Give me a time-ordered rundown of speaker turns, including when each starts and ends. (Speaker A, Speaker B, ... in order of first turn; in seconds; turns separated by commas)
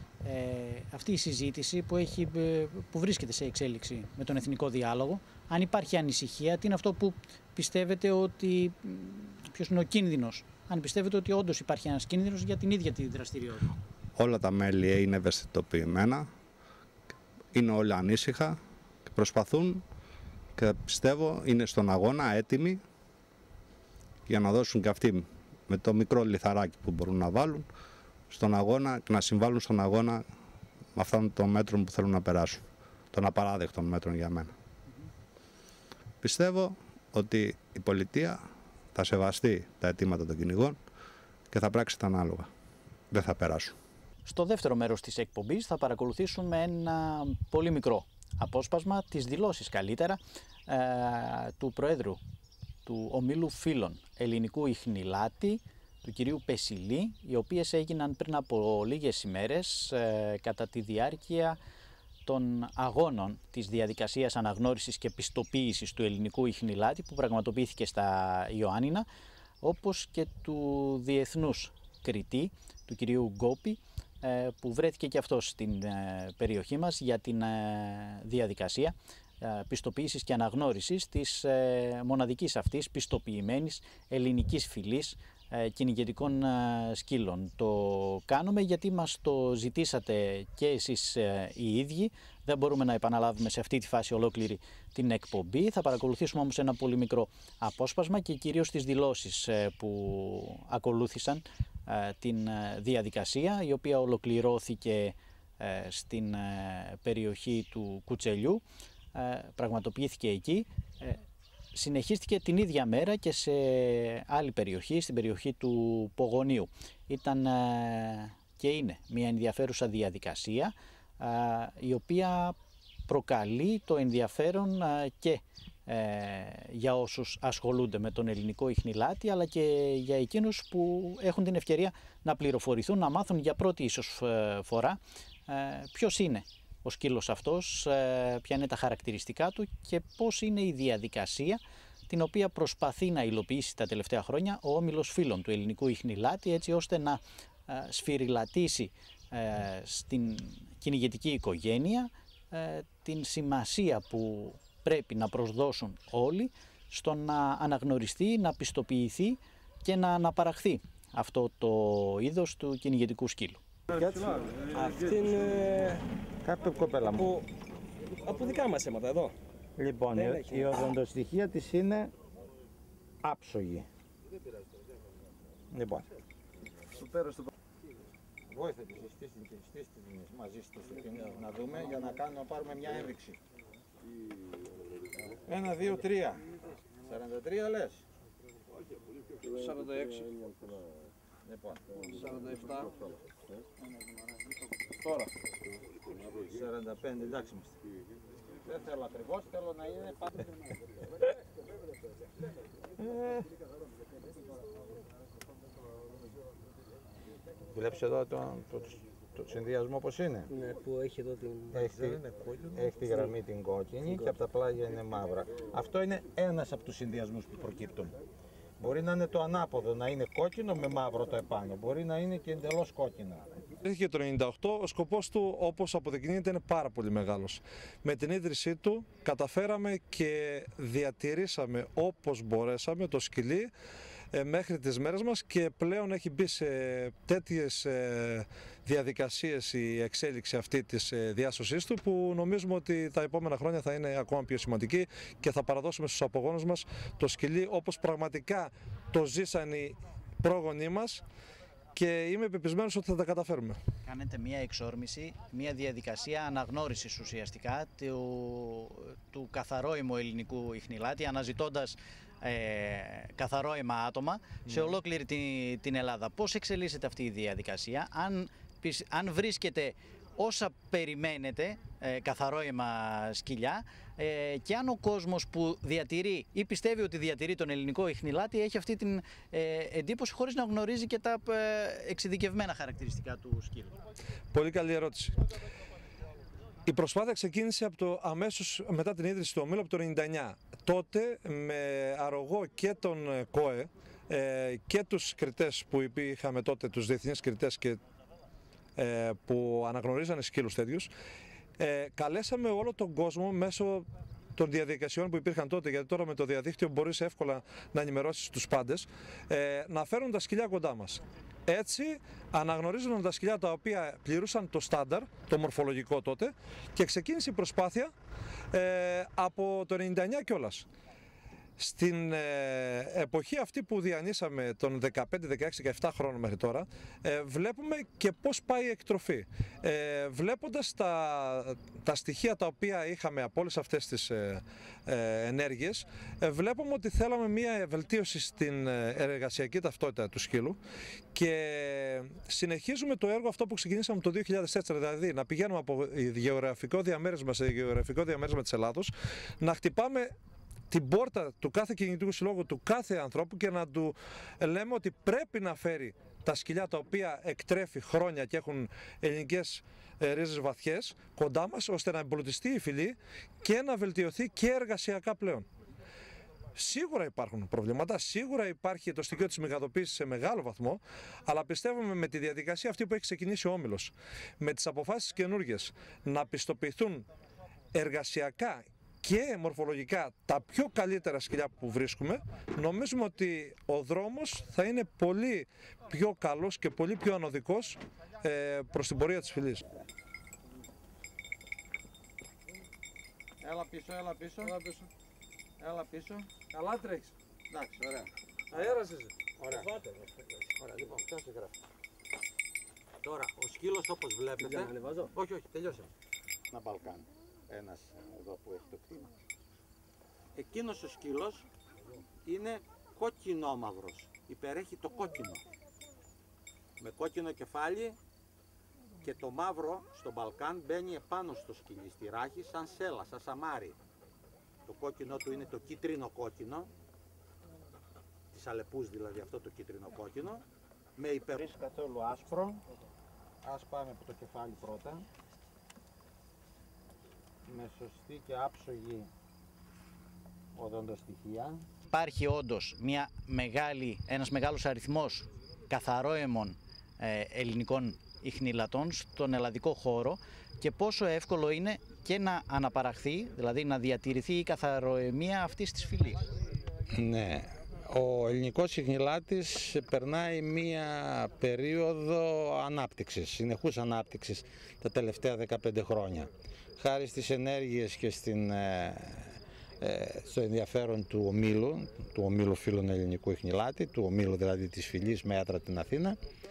Speaker A: 0.2-13.8, Speaker B: 14.2-16.3, Speaker B: 17.5-19.8, Speaker B: 20.6-22.8, Speaker B: 24.3-27.7, Speaker B: 28.3-30.3, Speaker B: 30.9-34.5, Speaker B: 36.2-40.8, Speaker B: 41.5-42.5, Speaker B: 43.1-43.8, Speaker A: 44.3-52.2, Speaker A: 52.9-61.6, Speaker A: 62.3-69.1, Speaker A: 69.6-108.6, Speaker A: 109.1-111.2, Speaker A: 111.7-122.6, Speaker A: 123.1-163.6, Speaker C: 163.9-164.3, Speaker D: 164.7-166.1, Speaker C: 166.4-167.3, Speaker D: 167.2-167.5, Speaker D: 168.2-169.3, Speaker C: 169.8-172.1, Speaker D: 170.1-170.9, Speaker C: 173.2-173.9, Speaker C: 175.7-176.1, Speaker C: 176.9-177.3, Speaker C: 178.5-183.4, Speaker C: 185.5-186.5, Speaker C: 187.0-188.0, Speaker E: 189.5-190.3, Speaker C: 191.4-191.8, Speaker E: 192.2-192.9, Speaker E: 195.0-195.3, Speaker C: 196.2-197.8, Speaker C: 198.7-200.5, Speaker C: 207.7-210.5, Speaker D: 210.5-211.9, Speaker C: 211.7-218.2, Speaker C: 218.8-223.6, Speaker E: 223.8-233.7, Speaker E: 234.3-251.2, Speaker E: 251.9-253.8, Speaker A: 254.1-284.0, Speaker E: 264.7-264.9, Speaker E: 284.5-285.4, Speaker E: 286.9-298.0, Speaker E: 299.0-301.1, Speaker E: 301.8-318.1, Speaker E: 318.7-320.9, Speaker E: 321.8-340.8, Speaker E: 341.3-350.3, Speaker E: 350.9-365.7, Speaker E: 366.8-377.3, Speaker E: 377.9-389.8, Speaker C: 393.6-394.8, Speaker E: 394.6-395.1, Speaker C: 395.8-396.5, Speaker E: 396.7-397.3, Speaker C: 397.7-398.8, Speaker E: 398.7-400.0, Speaker C: 399.6-400.0, Speaker C: 400.8-401.8, Speaker C: 403.2-406.1, Speaker D: 404.6-405.3, Speaker C: 406.7-409.3, Speaker C: 410.6-411.7, Speaker C: 412.4-415.6, Speaker C: 417.0-418.2, Speaker C: 419.2-424.0, Speaker C: 424.9-426.9, Speaker C: 428.5-430.6, Speaker C: 431.2-432.8, Speaker C: 433.6-435.2, Speaker C: 437.7-439.3, Speaker C: 440.8-441.8, Speaker A: 442.1-456.5, Speaker C: 457.1-476.4